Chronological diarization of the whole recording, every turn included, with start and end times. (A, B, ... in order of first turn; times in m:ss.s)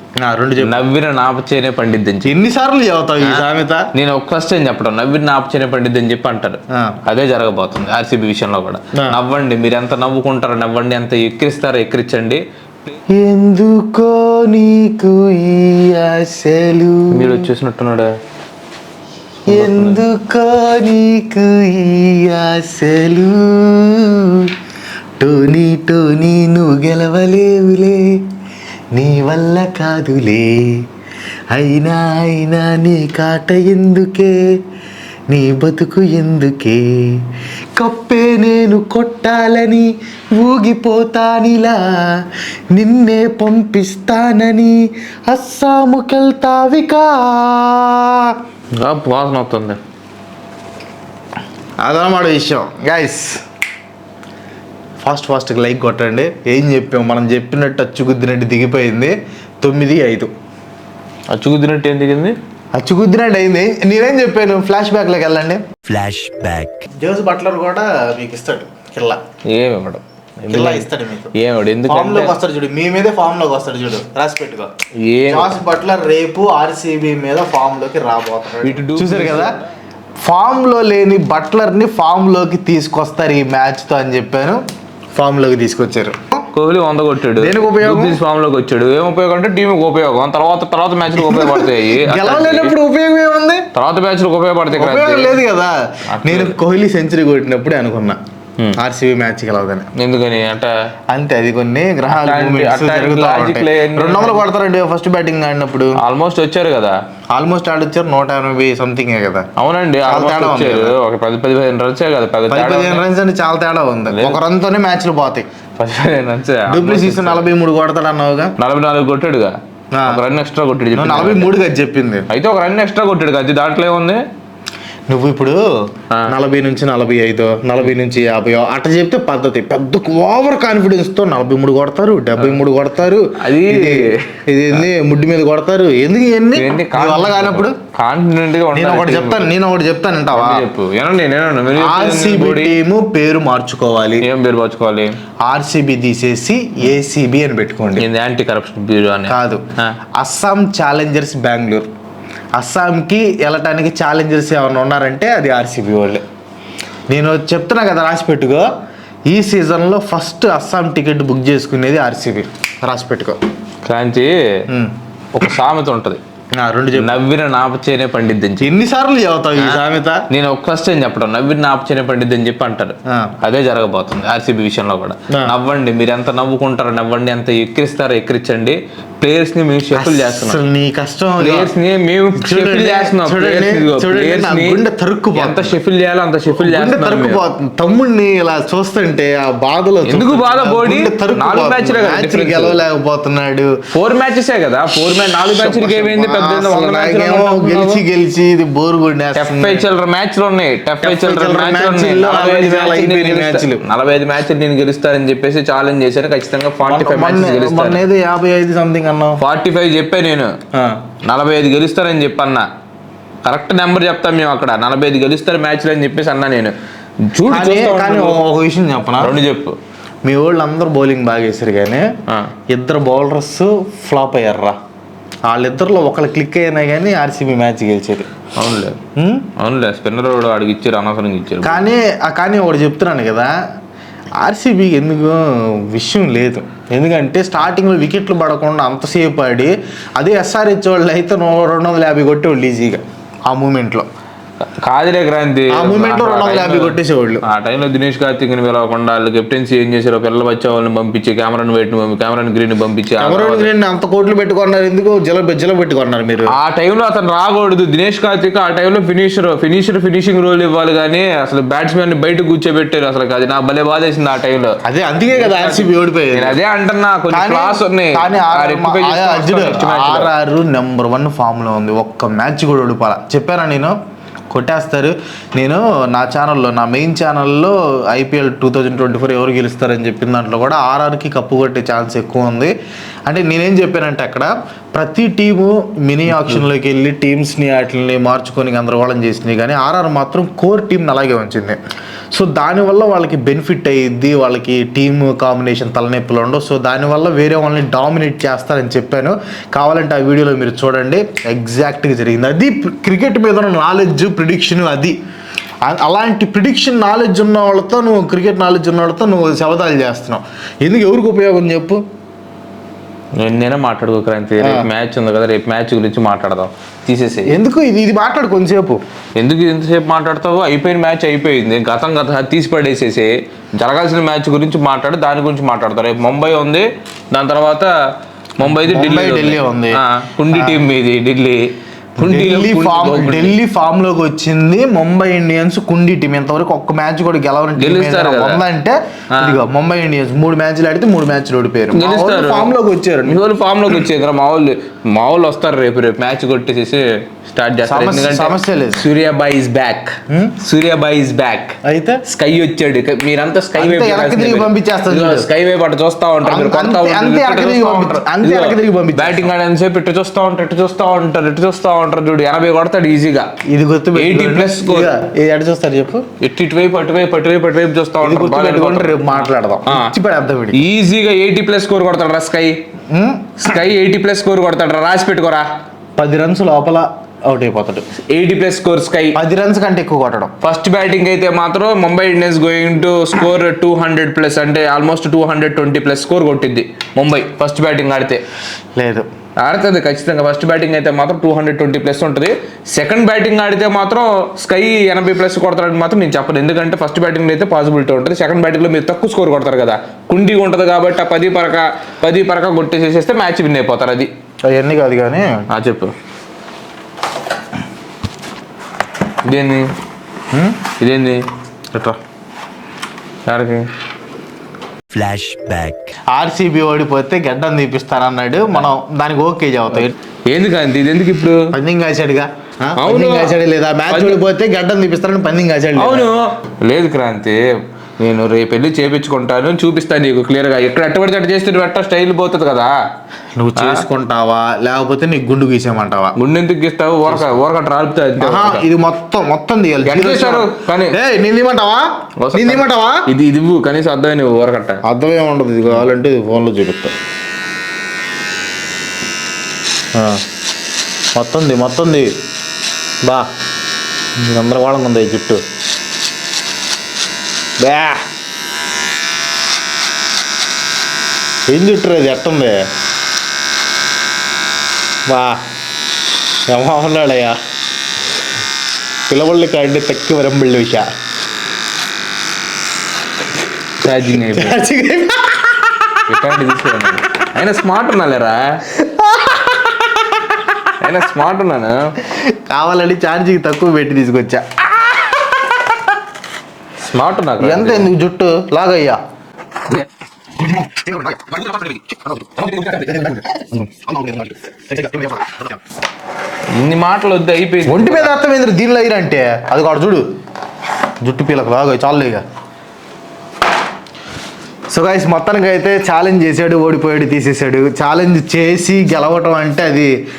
0:00.2-0:00.8 A
0:00.6-0:02.3 B
0:02.2-0:03.9 A
0:03.2-0:12.4 B
0:06.7-0:07.0 A
0:08.9-0:09.2 A
0:13.1-0:17.5 A
0:17.1-0:18.1 B
0:19.4-0:20.0 B
0:19.5-0:24.5 A
0:25.2-0:28.2 A
0:28.9-0:30.8 A
0:31.5-0:34.4 A
0:35.3-0:37.2 A
0:37.8-0:48.4 A
0:48.8-0:49.8 B
0:51.8-0:53.4 A
0:55.0-1:00.3 A
1:01.3-1:02.3 B
1:02.7-1:05.6 A
1:05.8-1:06.8 C
1:06.9-1:09.2 A
1:09.5-1:12.3 B
1:10.5-1:11.3 A
1:11.8-1:14.7 A
1:15.0-1:15.5 B
1:15.3-1:19.6 A
1:18.6-1:19.6 B
1:20.2-1:24.6 A
1:25.1-1:26.2 A
1:26.5-1:32.7 B
1:27.4-1:28.2 A
1:31.1-1:33.6 A
1:33.7-1:35.4 B
1:34.7-1:38.2 A
1:36.1-1:36.6 B
1:38.7-1:39.9 A
1:39.9-1:40.7 B
1:41.1-1:46.0 A
1:42.1-1:44.4 B
1:46.0-1:47.0 B
1:47.3-1:49.4 A
1:49.6-1:53.0 B
1:50.0-1:51.0 A
1:52.5-1:55.4 A
1:54.1-1:54.4 B
1:55.8-1:57.5 B
1:56.7-1:58.5 A
1:58.6-2:01.5 B
1:59.9-2:00.2 A
2:00.9-2:02.2 A
2:02.3-2:04.2 B
2:05.1-2:05.6 A
2:06.3-2:17.8 A
2:13.4-2:14.3 B
2:16.5-2:19.5 B
2:18.7-2:20.6 A
2:20.3-2:22.8 B
2:21.7-2:24.3 A
2:24.2-2:25.2 B
2:25.4-2:28.0 A
2:28.0-2:30.0 B
2:29.3-2:29.6 A
2:30.2-2:31.9 A
2:32.6-2:36.2 A
2:37.1-2:38.7 A
2:39.3-2:43.4 A
2:43.8-2:44.6 B
2:44.7-2:44.9 A
2:45.3-2:46.2 B
2:46.6-2:47.2 A
2:46.9-2:48.7 B
2:48.6-2:50.2 A
2:49.6-3:00.6 B
2:53.1-2:53.3 A
2:55.3-2:55.6 A
2:59.9-3:01.7 A
3:01.4-3:07.4 B
3:02.3-3:05.8 A
3:06.5-3:13.7 A
3:10.0-3:12.8 B
3:13.9-3:18.0 B
3:15.3-3:19.8 A
3:19.4-3:28.0 B
3:21.0-3:23.8 A
3:26.8-3:29.4 A
3:29.4-3:30.5 B
3:30.7-3:31.0 A
3:31.2-3:32.7 B
3:33.4-3:36.7 B
3:37.3-3:38.4 B
3:37.5-3:39.4 A
3:39.2-3:39.8 B
3:40.2-3:42.0 A
3:42.7-3:44.8 A
3:45.4-3:48.3 A
3:48.6-3:49.0 B
3:49.2-3:49.4 A
3:49.6-3:51.9 B
3:51.6-3:53.5 A
3:54.4-4:04.1 A
4:04.8-4:13.7 B
4:05.7-4:07.4 A
4:13.2-4:16.5 A
4:16.5-4:24.8 B
4:24.8-4:26.6 A
4:25.3-4:30.3 B
4:27.3-4:34.0 A
4:34.5-4:42.7 A
4:43.2-4:51.8 A
4:52.3-5:05.2 A
5:05.8-5:12.0 A
5:13.4-5:17.5 B
5:14.6-5:14.9 A
5:17.5-5:19.0 A
5:19.4-5:27.9 B
5:28.6-5:33.6 B
5:28.6-5:30.8 A
5:32.2-5:43.4 A
5:37.8-5:38.6 B
5:39.3-5:39.6 B
5:41.9-5:42.7 B
5:43.2-6:03.5 B
5:47.9-5:49.0 A
5:50.3-5:50.6 A
5:51.8-5:52.2 A
5:53.8-5:55.5 A
5:56.4-5:59.5 A
6:03.7-6:06.2 A
6:04.2-6:05.1 B
6:06.4-6:10.1 B
6:08.2-6:10.8 A
6:10.7-6:12.8 B
6:13.1-6:13.8 A
6:13.6-6:15.6 B
6:16.2-6:18.0 A
6:18.3-6:19.4 B
6:19.3-6:20.5 A
6:20.6-6:28.4 B
6:29.0-6:29.3 A
6:29.6-6:44.3 B
6:44.7-6:45.7 A
6:45.7-6:46.1 B
6:49.4-6:49.9 B
6:50.5-6:50.8 A
6:51.0-6:51.4 B
6:51.9-6:52.2 A
6:53.4-6:53.8 B
6:55.1-6:56.1 C
6:56.3-7:00.1 A
7:00.5-7:01.7 B
7:01.7-7:06.3 A
7:03.0-7:03.5 B
7:04.1-7:04.4 B
7:06.0-7:07.6 B
7:08.2-7:12.9 B
7:13.6-7:16.3 A
7:13.8-7:14.0 B
7:16.4-7:18.8 B
7:18.4-7:23.3 A
7:20.1-7:21.2 B
7:22.4-7:25.0 B
7:25.0-7:27.1 A
7:30.1-7:30.4 A
7:31.4-7:32.3 A
7:34.4-7:35.6 A
7:37.8-7:38.2 A
7:41.7-7:42.8 A
7:45.3-7:45.6 A
7:46.7-7:47.6 A
7:49.3-7:51.1 A
7:54.0-7:54.8 B
7:54.3-7:56.3 A
7:56.3-7:58.8 B
7:58.9-8:00.9 A
8:01.0-8:02.1 B
8:02.2-8:06.1 A
8:07.0-8:08.1 B
8:07.6-8:09.2 A
8:10.6-8:15.8 A
8:12.6-8:13.4 B
8:16.7-8:18.3 B
8:17.8-8:20.2 A
8:21.2-8:22.4 A
8:24.9-8:30.1 A